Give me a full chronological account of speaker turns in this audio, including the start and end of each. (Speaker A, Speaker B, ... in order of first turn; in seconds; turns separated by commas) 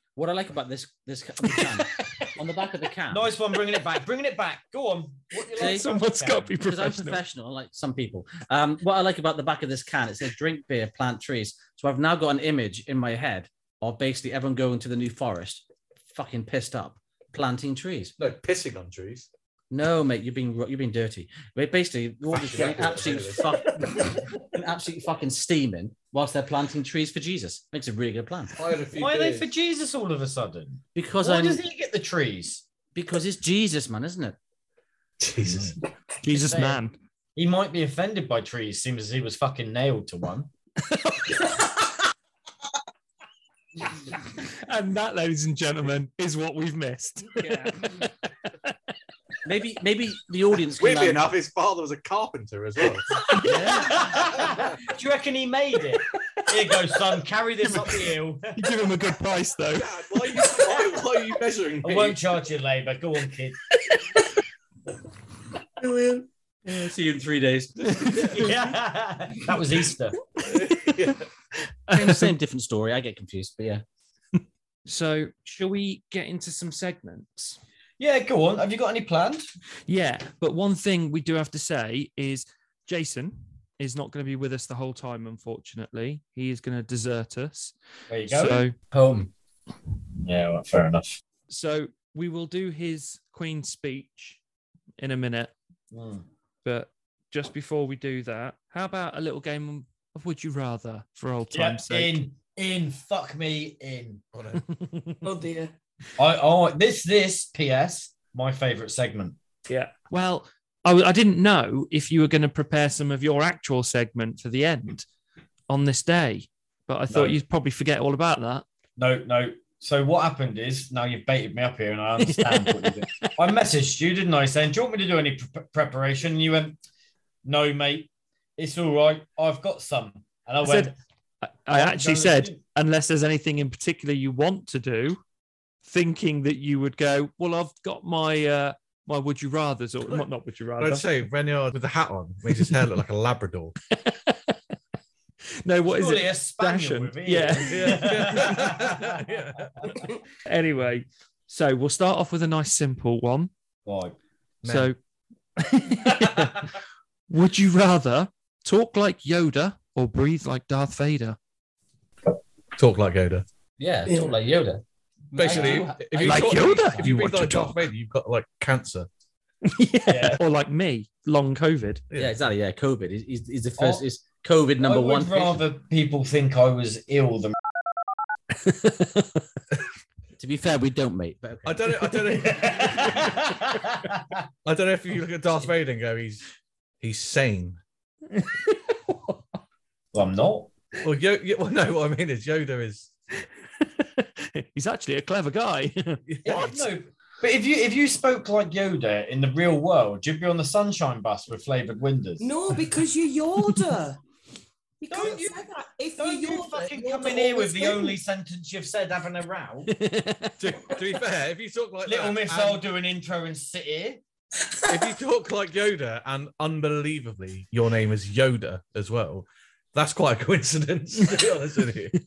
Speaker A: 0.1-3.3, Speaker B: 1.5-2.2, Speaker C: 3.1-6.5, Speaker B: 5.5-7.2, Speaker A: 5.5-5.9, Speaker A: 6.6-18.1, Speaker D: 18.2-19.3, Speaker A: 19.7-28.6, Speaker D: 22.3-23.7, Speaker D: 28.5-29.5, Speaker C: 28.9-32.6, Speaker A: 30.9-31.6, Speaker A: 32.9-34.4, Speaker D: 35.2-35.7, Speaker C: 35.4-35.7, Speaker B: 36.2-36.9, Speaker C: 36.2-36.8, Speaker C: 37.3-40.5, Speaker B: 40.9-41.7, Speaker B: 44.3-48.1, Speaker A: 47.4-48.0, Speaker A: 49.4-51.3, Speaker D: 50.8-53.0, Speaker B: 53.1-54.4, Speaker C: 53.4-58.7, Speaker B: 56.7-57.1, Speaker B: 57.7-59.9, Speaker D: 59.7-62.2, Speaker C: 61.8-63.6, Speaker A: 66.7-68.0, Speaker B: 68.0-68.5, Speaker C: 68.1-70.2, Speaker D: 70.4-71.2, Speaker B: 70.4-71.1, Speaker B: 71.9-72.3, Speaker A: 71.9-73.8, Speaker B: 74.9-77.6, Speaker C: 78.0-79.5, Speaker B: 79.9-87.7, Speaker C: 88.1-88.7, Speaker B: 88.2-88.7, Speaker A: 88.9-89.3, Speaker C: 90.2-91.2, Speaker B: 91.5-94.4, Speaker B: 95.0-95.5, Speaker C: 95.9-96.2, Speaker B: 96.6-102.2, Speaker C: 101.5-104.2, Speaker D: 104.3-104.6, Speaker B: 104.7-105.1, Speaker E: 105.2-105.7, Speaker C: 106.2-109.4, Speaker B: 109.7-115.0, Speaker B: 115.7-118.6, Speaker C: 117.1-117.4, Speaker C: 119.0-126.8, Speaker B: 122.2-123.3, Speaker C: 127.4-130.9, Speaker B: 130.6-130.9, Speaker B: 131.4-135.2, Speaker C: 131.7-132.6, Speaker B: 135.8-141.1, Speaker D: 140.8-143.7, Speaker B: 143.9-144.6, Speaker B: 145.6-148.6, Speaker C: 145.9-149.3, Speaker D: 147.7-149.9, Speaker B: 150.4-153.5, Speaker C: 153.8-154.2, Speaker D: 154.6-154.9, Speaker B: 154.6-155.0, Speaker B: 155.6-156.7, Speaker C: 156.2-156.5, Speaker B: 157.3-161.4, Speaker D: 162.8-163.4, Speaker A: 163.8-167.1, Speaker E: 164.1-164.3, Speaker D: 165.3-169.1, Speaker B: 166.2-167.8, Speaker B: 169.6-172.0, Speaker C: 170.1-170.4, Speaker A: 172.1-175.6, Speaker C: 174.8-177.6, Speaker B: 178.6-179.4, Speaker A: 180.4-181.8, Speaker D: 181.6-183.4, Speaker C: 182.4-184.4, Speaker D: 184.6-186.4, Speaker D: 187.0-187.8, Speaker B: 188.3-189.4, Speaker C: 190.1-190.7, Speaker D: 191.0-193.1, Speaker B: 193.8-196.6, Speaker D: 196.3-196.8, Speaker C: 196.4-202.5, Speaker E: 202.4-204.2, Speaker B: 203.7-203.9, Speaker E: 205.0-208.2, Speaker C: 205.1-205.6, Speaker C: 206.2-209.9, Speaker B: 209.9-210.6, Speaker D: 210.6-212.8, Speaker C: 212.0-214.2, Speaker D: 214.9-222.2